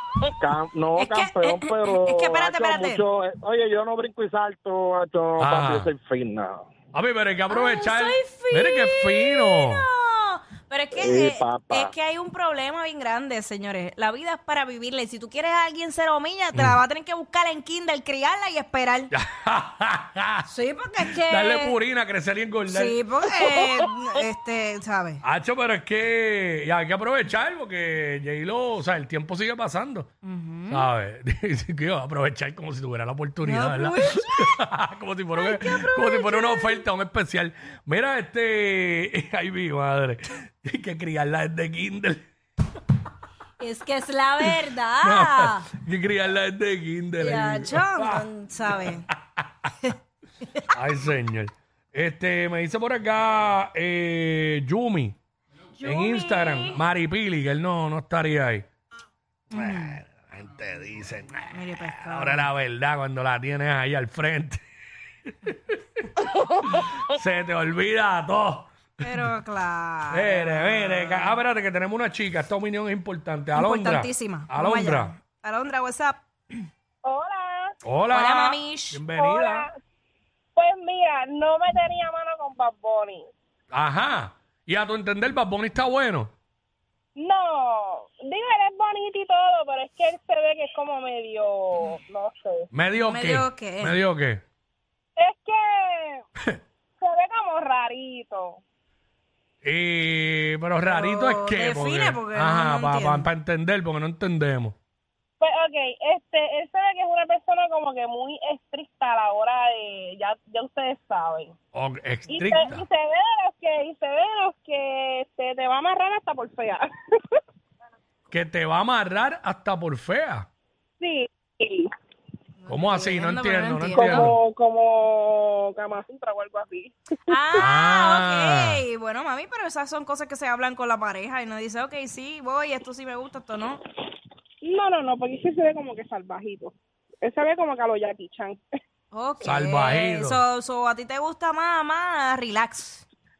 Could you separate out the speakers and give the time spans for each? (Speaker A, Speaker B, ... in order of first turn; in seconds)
Speaker A: 0.4-6.6, 10.9-11.9
Speaker B: 1.0-3.0, 7.5-19.1, 20.4-21.8, 22.7-25.2, 30.2-30.9, 33.4-34.5, 35.4-36.8, 43.6-45.6, 47.2-49.1, 55.8-56.8, 59.5-60.0, 61.5-62.5, 69.0-71.4, 73.5-76.2, 78.1-79.0, 93.0-94.0, 100.8-103.3, 122.6-124.3, 127.3-133.8, 139.1-143.0
Speaker C: 5.4-5.9, 6.9-9.9, 19.1-20.5, 21.0-23.0, 25.2-30.1, 30.7-42.2, 44.4-49.5, 50.7-55.1, 55.8-58.6, 59.5-64.6, 65.5-65.7, 66.7-69.0, 70.1-75.1, 77.8-79.7, 83.7-86.3, 92.7-94.4, 99.6-104.8, 111.7-112.8, 118.3-120.5, 122.7-124.3, 127.6-128.8, 139.4-140.4
Speaker D: 77.0-77.7, 79.2-79.7, 80.5-83.2, 87.2-92.7, 95.2-96.2, 97.0-98.6, 105.4-111.5, 112.3-116.8, 121.0-121.9, 123.9-127.6, 134.6-138.6